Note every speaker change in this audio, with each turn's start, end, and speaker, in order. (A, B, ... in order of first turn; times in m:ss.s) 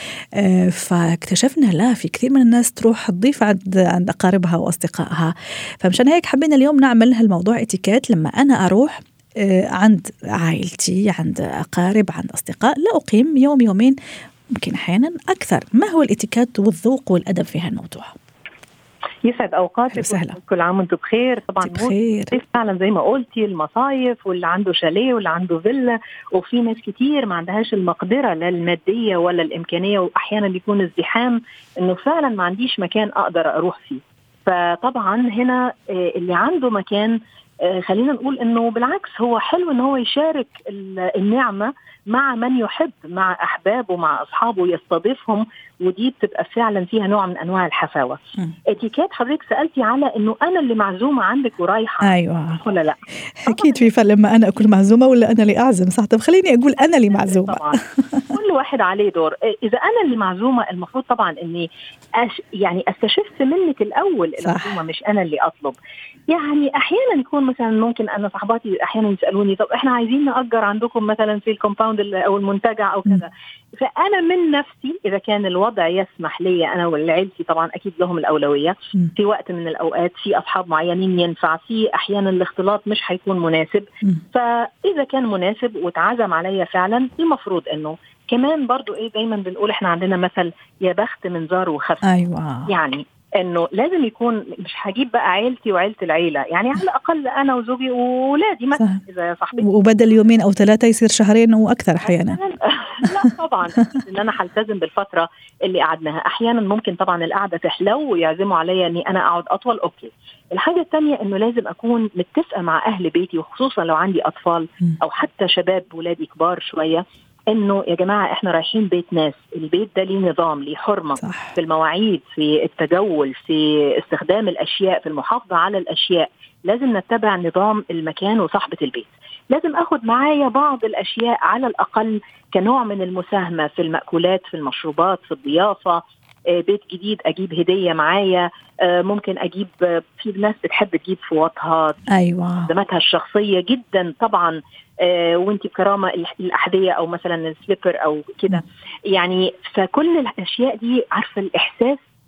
0:00.4-0:14.0 A
0:14.6-0:18.2 A
0:19.2-0:48.2 B
0:19.9-0:20.4 A
0:21.6-0:22.4 A
0:48.7-0:53.9 B
0:52.0-0:52.6 A
0:53.4-0:58.3 A
0:57.1-0:57.8 B
0:58.3-1:05.8 B
1:04.4-1:04.8 A
1:06.3-1:32.0 B
1:32.0-1:32.7 A
1:32.7-1:40.2 B
1:39.6-1:42.4 A
1:42.1-2:22.0 B
2:01.2-2:01.6 A
2:22.1-2:22.7 A
2:22.7-2:32.0 B